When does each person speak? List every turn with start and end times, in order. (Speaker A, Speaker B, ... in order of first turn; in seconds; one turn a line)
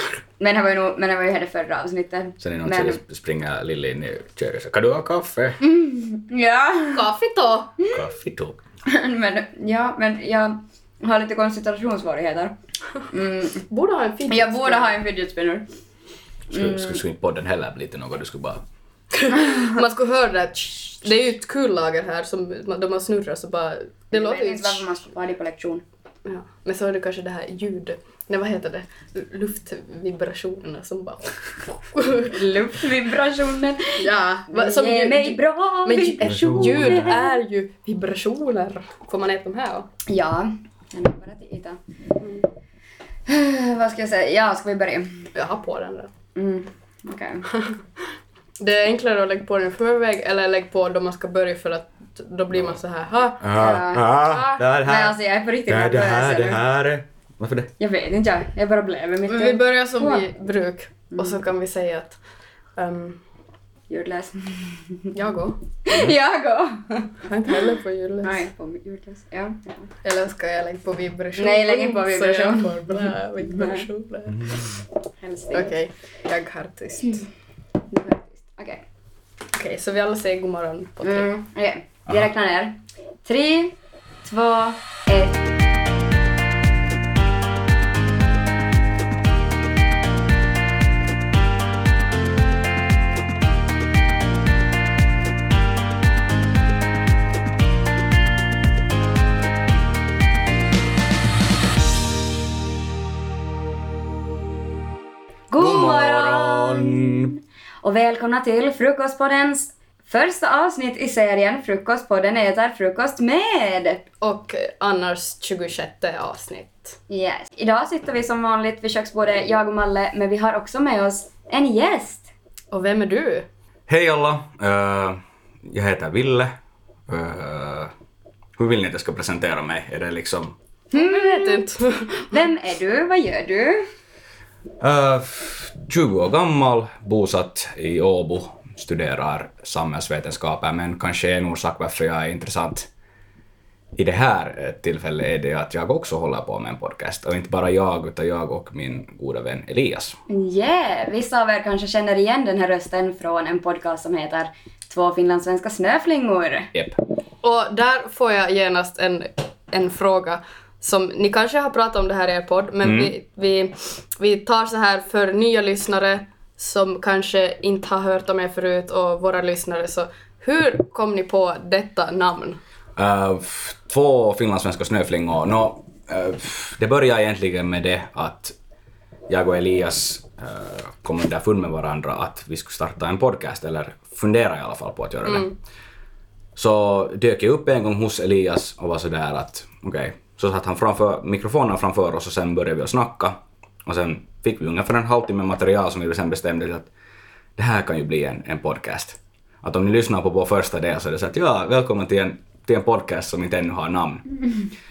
Speaker A: 0.4-3.0
Speaker B: 2.4-5.6
Speaker A: 5.6-7.1
Speaker C: 6.9-7.8
Speaker B: 7.9-8.6
Speaker A: 8.9-12.6
Speaker A: 13.1-13.7
Speaker C: 13.7-14.9
Speaker A: 14.3-15.7
Speaker B: 16.5-18.6
Speaker A: 16.5-17.0
Speaker C: 19.2-24.8
Speaker A: 24.1-25.8
Speaker C: 26.3-31.3
Speaker C: 31.9-32.4
Speaker A: 32.2-37.3
Speaker C: 34.0-39.9
Speaker B: 36.3-37.1
Speaker A: 40.1-41.8
Speaker C: 42.2-42.5
Speaker A: 43.3-45.3
Speaker C: 45.4-46.1
Speaker A: 46.4-47.5
Speaker C: 47.5-47.8
Speaker C: 48.6-53.5
Speaker B: 53.4-57.7
Speaker A: 53.5-56.6
Speaker C: 54.3-54.6
Speaker A: 57.8-60.3
Speaker C: 59.3-62.2
Speaker A: 61.1-61.4
Speaker C: 62.8-63.2
Speaker A: 63.9-65.1
Speaker C: 65.1-65.6
Speaker A: 65.9-67.1
Speaker C: 67.2-68.5
Speaker A: 68.2-69.9
Speaker C: 70.0-74.7
Speaker A: 71.4-73.8
Speaker A: 75.2-75.7
Speaker C: 75.5-77.3
Speaker A: 77.9-78.8
Speaker C: 79.5-81.3
Speaker A: 81.0-85.5
Speaker A: 105.5-114.0
Speaker B: 105.6-107.3
Speaker C: 114.2-117.0
Speaker A: 117.1-122.3
Speaker C: 122.7-123.5
Speaker B: 123.9-126.5
Speaker B: 127.1-127.9
Speaker B: 128.6-130.6
Speaker A: 130.9-133.9
Speaker C: 130.9-132.3
Speaker B: 134.8-142.9
Speaker B: 144.0-150.2
Speaker A: 150.3-156.7
Speaker C: 157.4-172.6
Speaker B: 162.8-163.1
Speaker B: 173.0-178.6
Speaker B: 179.3-185.5
Speaker C: 185.2-185.6
Speaker B: 186.6-196.9
Speaker B: 197.6-204.2